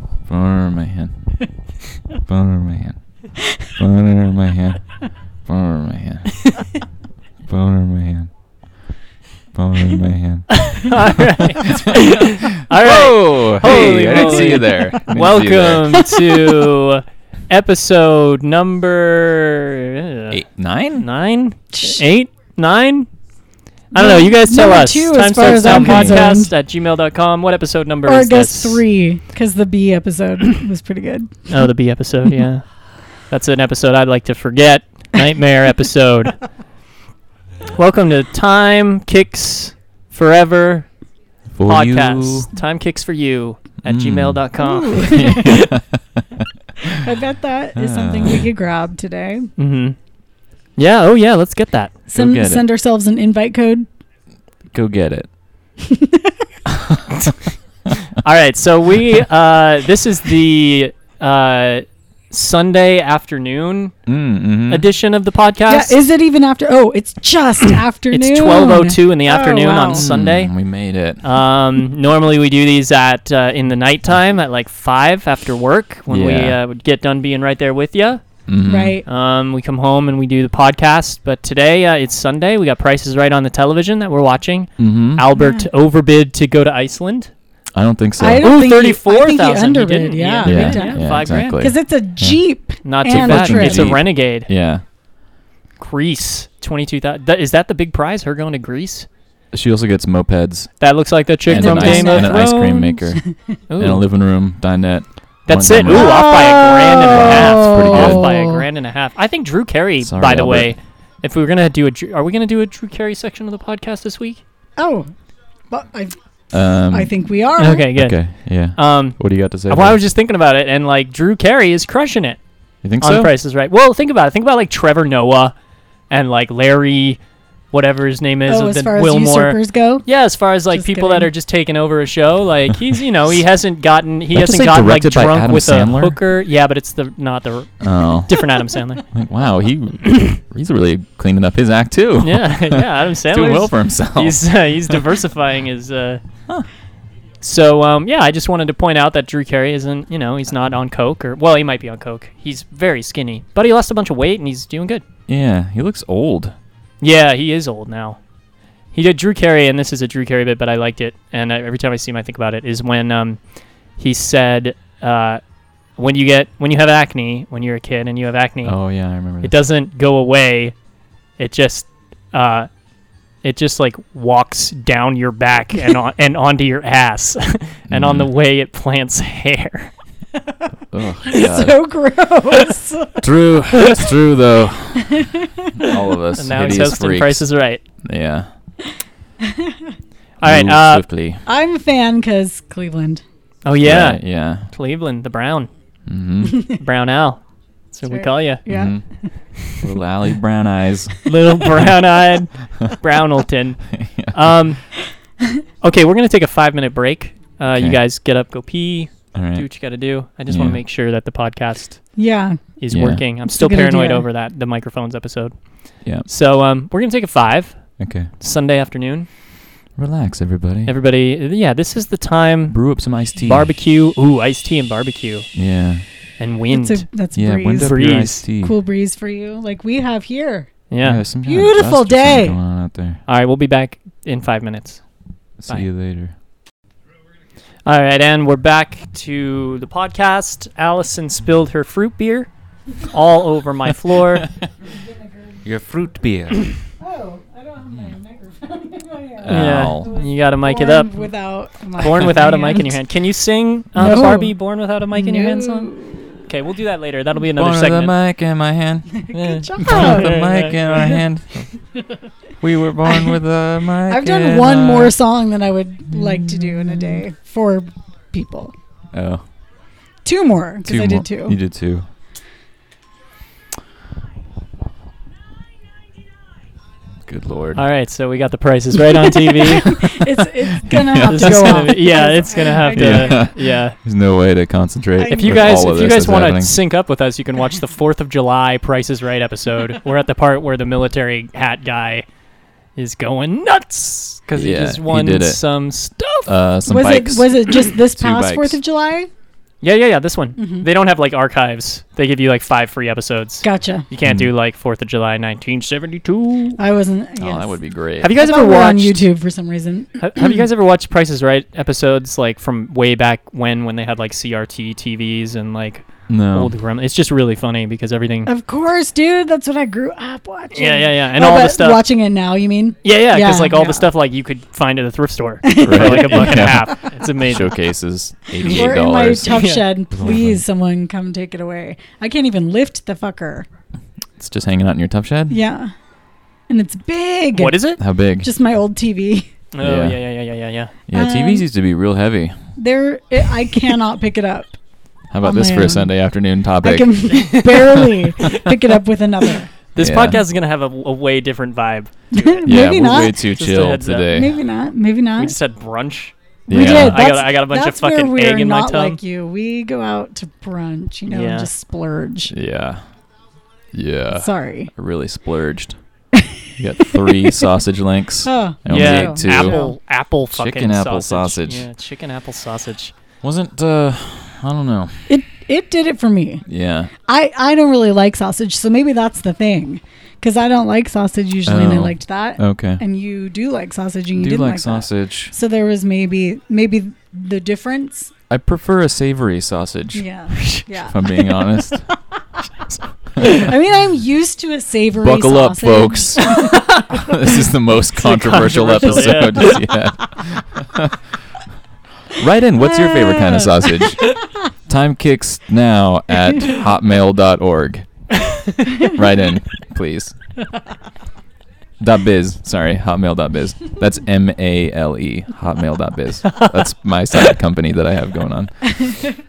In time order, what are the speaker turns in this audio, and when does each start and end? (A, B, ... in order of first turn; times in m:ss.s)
0:00.3-0:01.1 A
0:02.3-0:03.0 A
0:03.8-0:04.9 A
0:05.5-0:06.4 A
0:07.5-0:08.3 A
0:09.5-0:16.0 A
0:10.5-0:20.4 B
0:14.2-0:14.6 C
0:16.0-0:16.6 C
0:20.3-0:21.0 A
0:21.0-0:23.1 B
0:21.7-0:22.0 C
0:23.9-0:28.8 B
0:23.9-0:26.5 C
0:25.6-0:26.2 A
0:28.0-0:31.5 C
0:31.5-0:36.4 B
0:37.7-0:40.9 B
0:41.5-0:42.5 A
0:41.6-0:45.7 B
0:43.8-0:44.4 A
0:44.6-0:45.6 C
0:45.0-0:47.1 A
0:46.8-0:49.5 C
0:47.8-0:48.4 A
0:49.6-0:50.0 B
0:50.8-0:52.0 B
0:52.1-0:53.9 C
0:52.1-0:52.6 A
0:54.7-0:55.3 A
0:55.8-0:56.4 C
0:56.7-0:57.4 A
0:58.0-1:03.9 B
1:04.0-1:04.9 A
1:04.7-1:06.0 B
1:05.7-1:10.0 C
1:08.1-1:10.5 B
1:09.9-1:11.2 A
1:11.2-1:18.2 B
1:16.1-1:16.6 A
1:18.5-1:19.0 A
1:18.7-1:19.0 C
1:19.0-1:27.3 B
1:24.8-1:25.2 A
1:25.4-1:25.7 C
1:27.7-1:28.5 A
1:28.2-1:33.9 C
1:28.4-1:31.6 B
1:30.4-1:32.4 A
1:32.8-1:34.5 B
1:33.0-1:34.8 A
1:35.8-1:39.1 B
1:39.5-1:40.7 A
1:40.8-1:43.0 B
1:41.5-1:43.2 A
1:41.5-1:43.3 C
1:43.7-1:44.0 B
1:43.8-1:46.4 A
1:45.5-1:54.4 B
1:45.9-1:48.6 C
1:47.0-1:48.2 A
1:50.0-1:50.7 A
1:54.8-1:55.1 C
1:55.7-1:56.2 C
1:56.5-1:57.2 A
1:56.7-1:57.9 C
1:57.6-2:02.4 B
1:57.9-2:00.0 A
2:02.8-2:03.3 A
2:03.0-2:05.5 B
2:06.1-2:07.2 B
2:07.7-2:19.0 B
2:08.5-2:10.1 C
2:10.7-2:11.3 C
2:14.3-2:16.2 A
2:17.8-2:18.4 A
2:19.1-2:25.0 A
2:22.2-2:26.2 B
2:27.4-2:35.0 B
2:35.3-2:36.5 A
2:37.0-2:38.2 B
2:38.9-2:43.4 B
2:44.0-2:45.4 B
2:46.0-2:48.8 B
2:48.6-2:49.5 A
2:49.4-2:50.7 B
2:51.4-2:52.7 B
2:53.4-2:59.9 B
2:57.9-2:58.3 A
3:00.9-3:01.8 A
3:01.2-3:03.3 C
3:03.2-3:07.4 A
3:05.0-3:05.8 C
3:05.8-3:07.8 B
3:08.0-3:08.5 A
3:09.4-3:09.9 C
3:10.4-3:11.0 B
3:10.4-3:11.4 A
3:11.4-3:13.2 C
3:13.6-3:15.7 B
3:13.8-3:14.7 A
3:16.0-3:16.7 A
3:16.6-3:18.6 B
3:18.1-3:19.3 C
3:18.7-3:19.0 A
3:19.6-3:21.2 A
3:21.2-3:24.9 B
3:23.9-3:24.3 A
3:25.8-3:32.1 B
3:27.7-3:28.0 A
3:29.3-3:29.7 A
3:30.5-3:30.8 A
3:32.2-3:32.6 C
3:32.8-3:39.3 B
3:32.9-3:33.2 A
3:33.5-3:34.2 C
3:38.0-3:38.3 A
3:40.0-3:40.9 A
3:40.8-3:45.5 B
3:42.7-3:43.7 A
3:45.5-3:46.0 A
3:46.4-3:47.0 B
3:46.7-3:50.8 C
3:47.3-3:48.7 A
3:47.8-3:48.4 B
3:50.9-3:51.2 B
3:51.0-3:53.2 A
3:51.4-3:52.6 C
3:53.3-3:55.0 B
3:55.6-3:56.3 A
3:57.8-4:04.5 B
4:04.9-4:05.5 C
4:05.6-4:06.8 A
4:07.0-4:13.0 C
4:09.4-4:10.1 A
4:09.5-4:11.2 B
4:12.0-4:15.9 B
4:14.0-4:14.5 C
4:15.1-4:16.1 C
4:16.5-4:18.2 B
4:17.5-4:19.2 A
4:19.2-4:20.3 C
4:19.3-4:21.1 B
4:19.8-4:21.7 A
4:22.6-4:25.1 A
4:23.0-4:23.4 C
4:24.0-4:28.7 C
4:26.2-4:27.2 A
4:29.1-4:29.4 A
4:30.2-4:31.6 C
4:30.8-4:32.1 A
4:37.2-4:37.8 A
4:37.8-4:39.9 B
4:39.4-4:43.5 C
4:40.7-4:41.7 A
4:41.2-4:44.0 B
4:42.9-4:46.8 A
4:45.2-4:45.9 C
4:45.2-4:52.2 B
4:53.0-4:56.5 B
4:54.6-4:55.6 A
4:56.4-4:58.8 A
4:56.9-4:59.3 C
4:59.8-5:06.8 B
5:00.6-5:00.9 C
5:03.6-5:04.0 C
5:04.2-5:04.5 A
5:06.8-5:07.8 C
5:07.4-5:08.3 A
5:08.2-5:09.2 B
5:08.3-5:10.6 C
5:10.2-5:18.5 B
5:16.3-5:16.7 A
5:18.4-5:24.1 C
5:20.7-5:22.0 B
5:23.0-5:27.7 B
5:25.6-5:27.0 C
5:25.8-5:29.6 A
5:28.6-5:33.7 C
5:29.5-5:29.8 B
5:30.1-5:30.6 A
5:34.4-5:35.6 A
5:35.5-5:35.9 C
5:36.7-5:39.5 C
5:37.5-5:38.0 B
5:38.0-5:38.5 A
5:39.7-5:40.9 B
5:39.8-5:40.2 A
5:41.1-5:42.6 A
5:41.1-5:41.6 C
5:42.8-5:44.8 C
5:45.3-5:47.2 A
5:45.4-5:46.1 C
5:46.8-5:49.7 C
5:47.3-5:48.7 B
5:49.9-5:54.4 B
5:50.0-5:50.4 A
5:52.3-5:53.4 C
5:52.6-5:54.6 A
5:54.3-5:55.6 C
5:55.4-5:59.2 B
5:56.7-5:57.2 A
5:56.7-6:02.5 C
6:01.3-6:01.7 B
6:02.5-6:03.0 A
6:03.9-6:06.0 A
6:04.3-6:04.9 C
6:06.4-6:07.2 C
6:06.8-6:09.8 A
6:08.4-6:09.9 C
6:08.9-6:13.1 B
6:10.5-6:11.9 A
6:13.4-6:15.2 A
6:15.3-6:16.6 C
6:16.6-6:17.1 A
6:17.2-6:28.3 C
6:21.6-6:23.0 A
6:24.3-6:25.5 A
6:28.5-6:30.3 A
6:30.2-6:32.0 C
6:30.6-6:30.8 B
6:30.9-6:32.1 A
6:33.4-6:33.6 B
6:33.4-6:37.4 C
6:35.2-6:36.6 A
6:36.6-6:37.0 B
6:37.1-6:41.2 A
6:38.2-6:39.8 B
6:42.3-6:44.4 A
6:42.9-6:44.0 C
6:44.9-6:48.1 A
6:48.9-6:50.3 A
6:52.0-6:59.2 A
6:56.5-6:56.8 B